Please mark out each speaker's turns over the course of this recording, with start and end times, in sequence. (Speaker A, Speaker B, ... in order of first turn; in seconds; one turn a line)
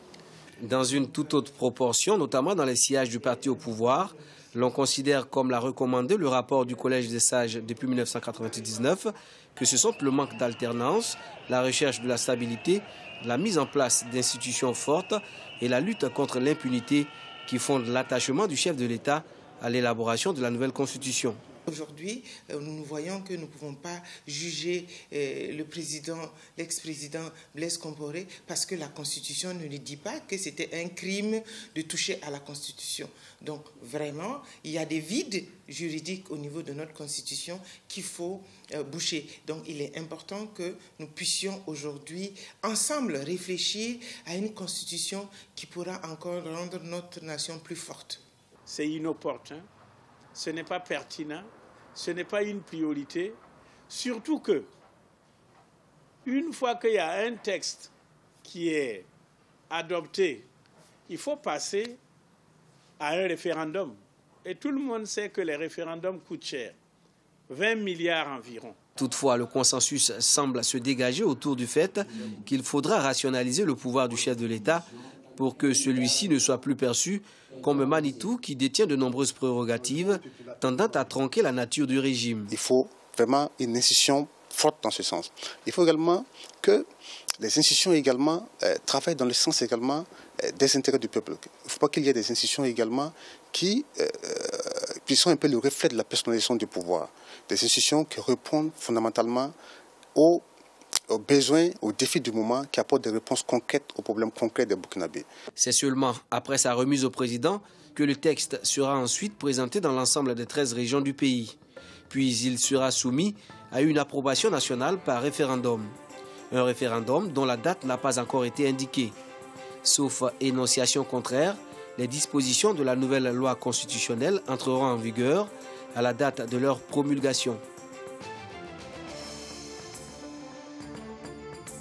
Speaker A: 0.6-21.4
Speaker B: 21.7-48.2
Speaker C: 48.7-49.6
Speaker C: 50.4-53.4
Speaker C: 53.9-54.7
Speaker C: 56.2-57.9
Speaker C: 58.4-59.1
Speaker C: 59.7-60.5
Speaker C: 61.1-62.0
Speaker C: 63.0-66.8
Speaker C: 67.5-68.8
Speaker A: 69.0-82.5
Speaker D: 82.5-86.9
Speaker D: 87.4-99.5
Speaker D: 100.2-100.5
Speaker D: 101.1-105.3
Speaker A: 105.6-111.6
Speaker A: 112.1-116.0
Speaker A: 116.5-119.2
Speaker A: 119.8-127.6